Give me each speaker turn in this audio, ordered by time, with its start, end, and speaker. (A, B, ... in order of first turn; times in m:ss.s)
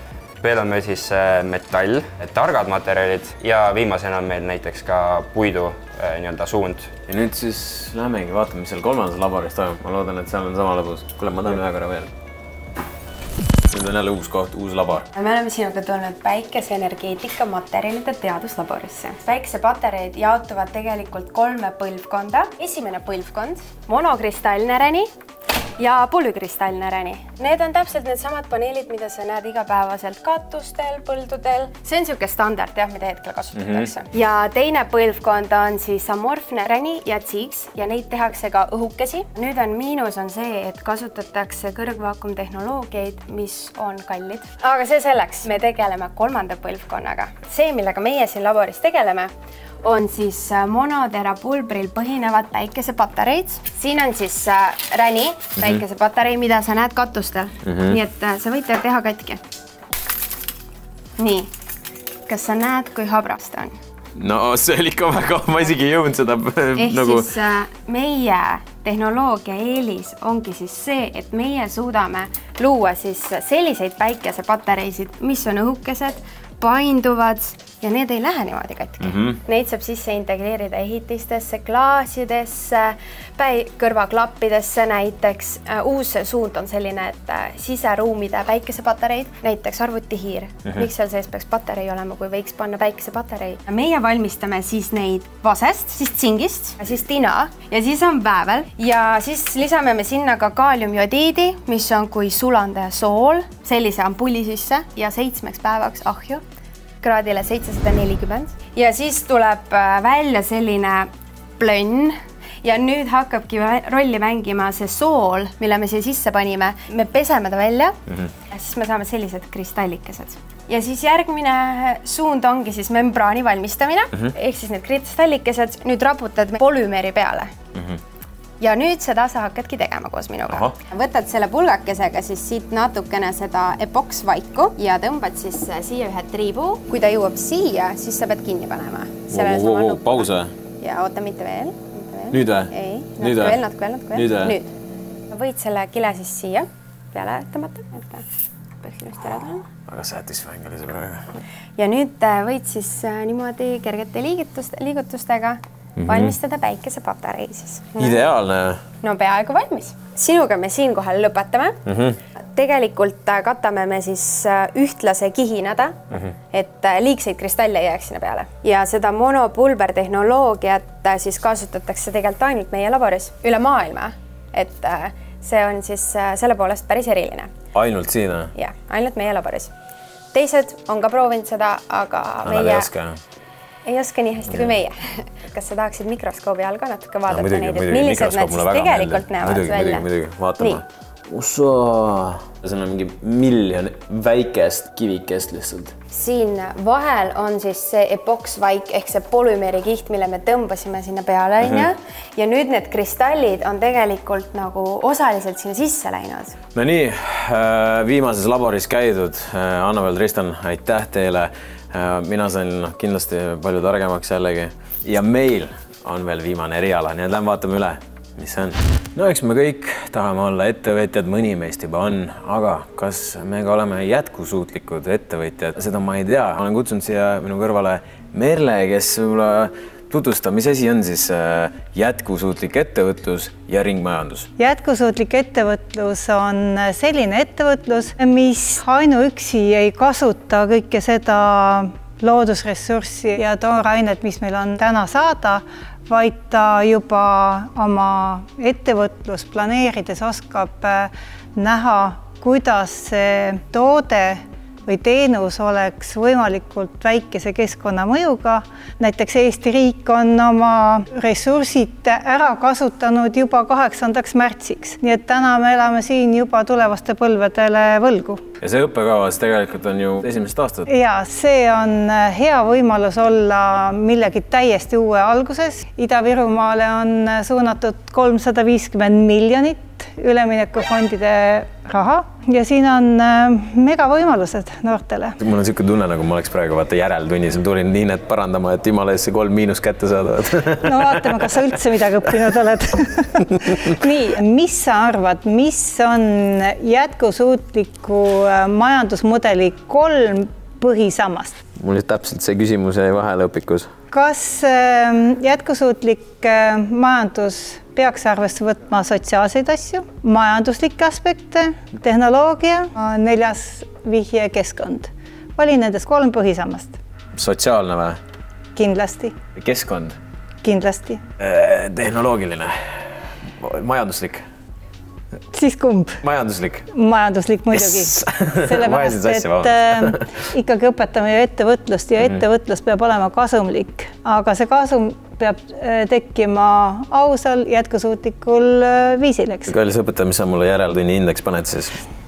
0:00.4-0:06.9 A
0:07.1-0:12.1 B
0:13.7-0:15.1 B
0:15.1-0:25.1 C
0:25.8-0:49.3 C
0:33.5-0:33.9 B
0:49.8-0:59.4 C
0:55.6-0:55.8 B
0:57.6-0:58.0 B
1:01.2-1:01.5 C
1:02.3-1:03.8 C
1:04.2-1:07.3 B
1:06.8-1:46.4 C
1:19.0-1:19.4 B
1:47.0-1:58.0 C
1:58.5-2:07.5 C
2:08.6-2:24.7 C
2:10.5-2:10.7 B
2:19.3-2:20.5 B
2:22.3-2:24.6 B
2:25.3-2:28.2 C
2:28.8-2:29.6 C
2:29.9-2:31.2 B
2:31.8-2:38.2 C
2:36.0-2:36.3 B
2:38.0-2:38.8 B
2:39.0-2:41.8 C
2:41.8-2:42.2 B
2:42.5-2:46.0 C
2:46.5-2:57.5 C
2:57.7-2:58.5 B
2:58.5-2:59.7 C
3:00.3-3:02.9 C
3:02.4-3:03.2 B
3:03.8-3:10.1 C
3:07.3-3:15.9 B
3:16.1-3:26.6 C
3:21.6-3:21.9 B
3:26.7-3:54.5 B
3:54.6-4:28.4 D
4:28.6-4:30.9 B
4:30.9-4:45.4 D
4:45.4-4:51.6 B
4:50.8-5:01.6 D
5:01.8-5:03.9 B
5:04.1-5:17.0 D
5:17.4-5:18.2 B
5:18.8-5:19.3 D
5:19.6-5:20.2 B
5:20.6-5:21.2 D
5:21.4-5:24.4 B
5:25.5-5:26.2 D
5:26.2-5:26.9 B
5:26.9-5:39.7 D
5:27.7-5:30.3 B
5:39.7-5:42.0 B